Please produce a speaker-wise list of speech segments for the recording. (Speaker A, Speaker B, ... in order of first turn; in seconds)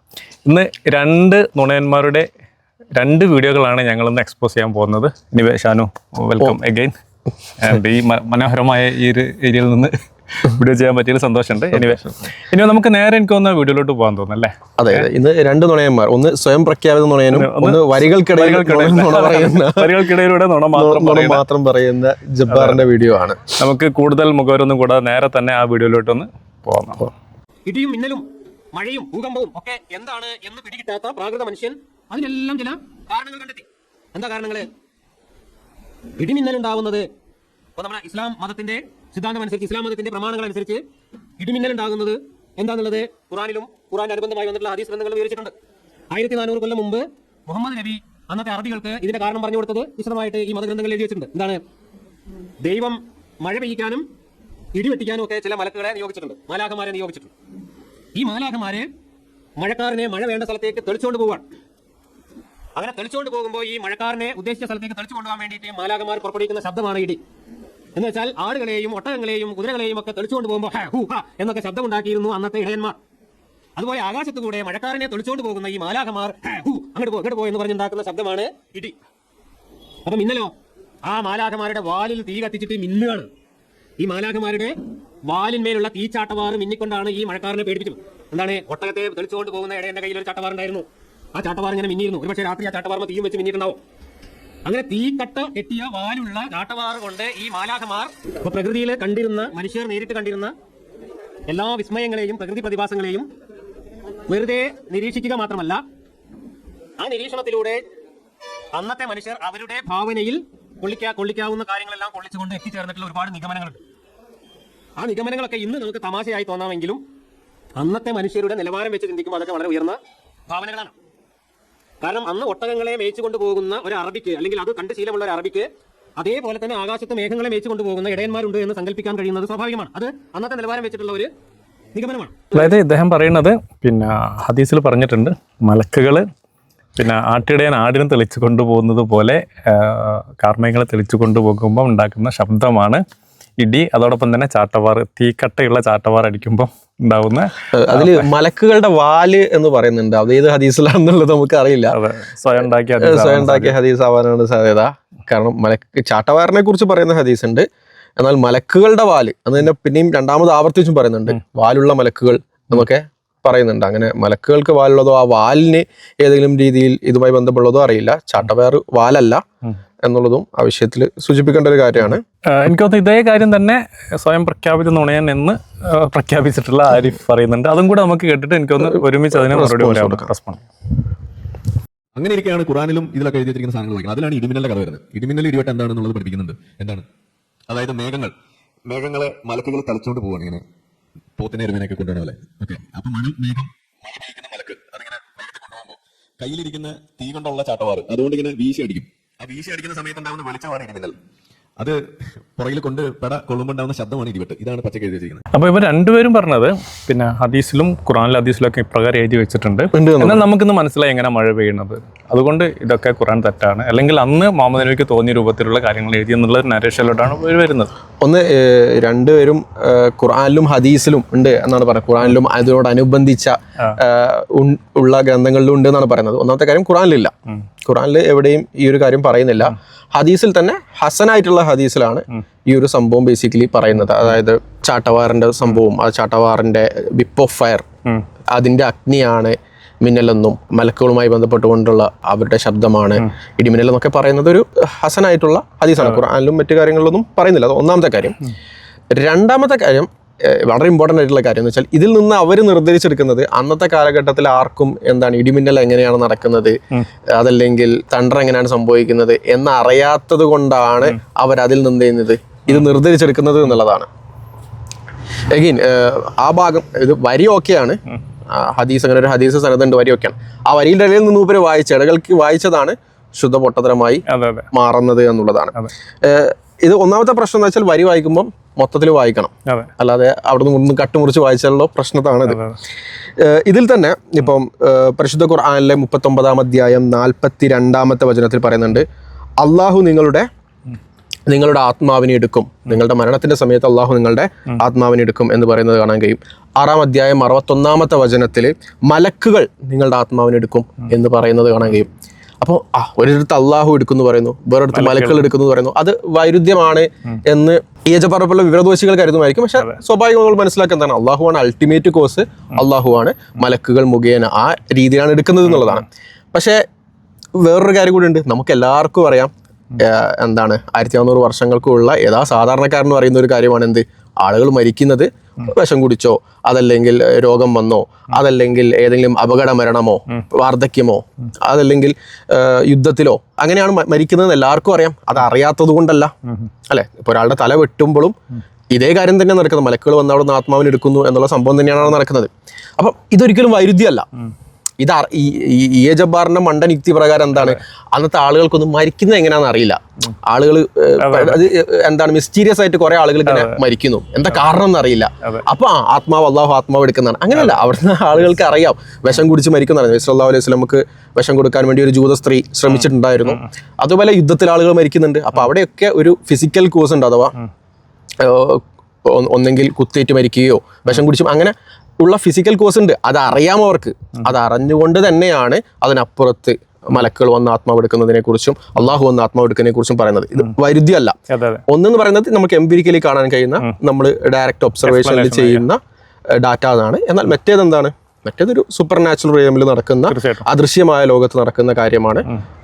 Speaker A: 0.5-2.3, 2.9-6.9, 7.6-15.1, 17.3-21.4, 22.5-22.8, 23.6-27.1, 132.5-136.2, 137.0-143.0, 143.6-148.3, 151.9-153.7, 172.5-180.6, 205.5-217.9, 274.3-274.7, 282.5-282.8, 304.9-305.4, 351.2-351.6, 353.4-353.8, 357.5-357.8, 362.9-363.6, 381.5-381.8, 385.0-385.9, 390.3-390.6
Speaker B: 14.8-20.1, 20.7-23.4, 147.7-151.9, 153.0-157.7, 158.2-169.4, 170.0-172.2, 178.9-180.3, 209.9-210.4, 218.2-227.3, 227.8-237.8, 238.5-248.4, 249.1-256.8, 257.3-264.1, 265.5-268.0, 268.5-282.6, 283.4-289.0, 289.6-290.5, 291.5-302.1, 302.6-316.8, 317.6-336.3, 336.9-338.3, 338.9-344.2, 345.0-367.5, 368.4-381.4, 381.9-386.0, 386.6-392.4
Speaker C: 27.6-34.7, 36.2-37.1, 37.8-40.8, 41.4-45.5, 46.1-51.6, 52.6-54.1, 54.7-57.3, 58.1-58.9, 59.6-61.4, 62.8-67.2, 67.9-73.0, 73.8-79.0, 80.0-83.3, 84.0-93.8, 94.6-100.5, 101.5-103.3, 104.3-105.8, 107.0-107.8, 108.7-113.8, 115.0-117.0, 117.8-120.9, 122.0-131.3, 131.9-132.8
Speaker D: 182.1-187.1, 187.7-188.3, 188.8-190.6, 191.4-201.1, 202.5-205.4